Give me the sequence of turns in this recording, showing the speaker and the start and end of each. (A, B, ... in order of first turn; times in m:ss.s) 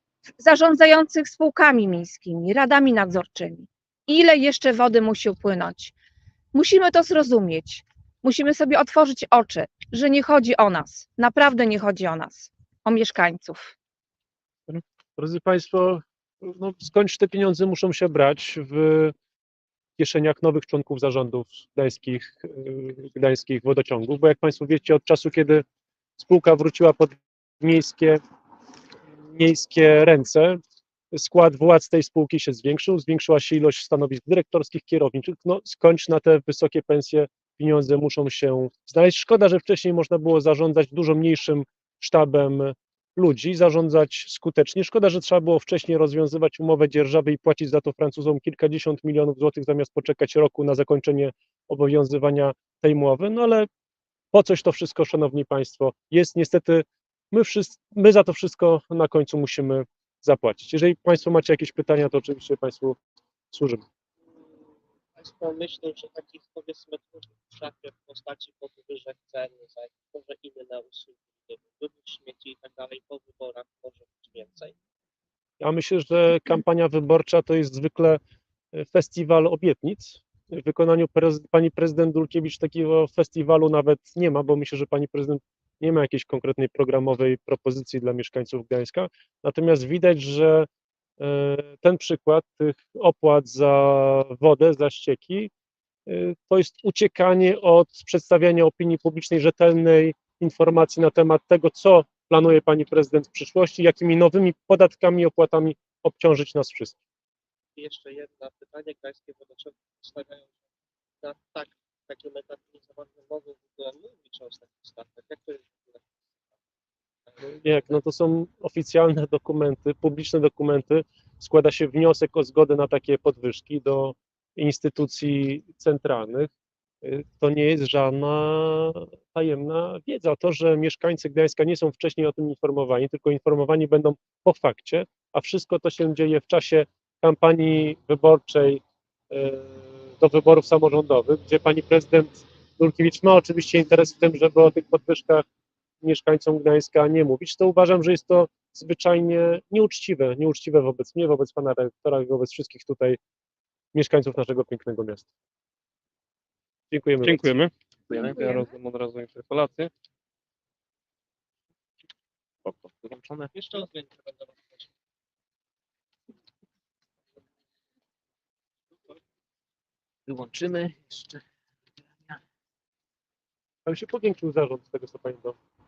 0:00.4-0:05.9 A
0:06.5-0:13.7 A
0:14.7-0:19.1 B
0:20.0-0:25.6 B
0:26.2-0:28.2 B
0:29.3-0:30.6 B
0:31.1-0:53.7 B
0:54.3-1:03.0 B
1:03.5-1:03.8 B
1:04.4-1:04.6 C
1:05.2-1:14.7 C
1:15.6-1:18.2 B
1:18.7-1:30.7 B
1:31.2-1:35.5 B
1:36.1-1:47.0 B
1:47.8-1:50.5 C
1:51.2-1:56.0 C
1:57.3-1:57.9 C
1:57.4-2:06.5 B
2:07.0-2:25.4 B
2:26.0-2:33.2 B
2:33.9-2:35.3 B
2:36.9-2:37.5 B
2:37.2-2:39.9 D
2:42.6-2:43.5 E
2:43.5-2:44.9 C
2:50.3-2:51.4 E
2:53.8-2:55.6 B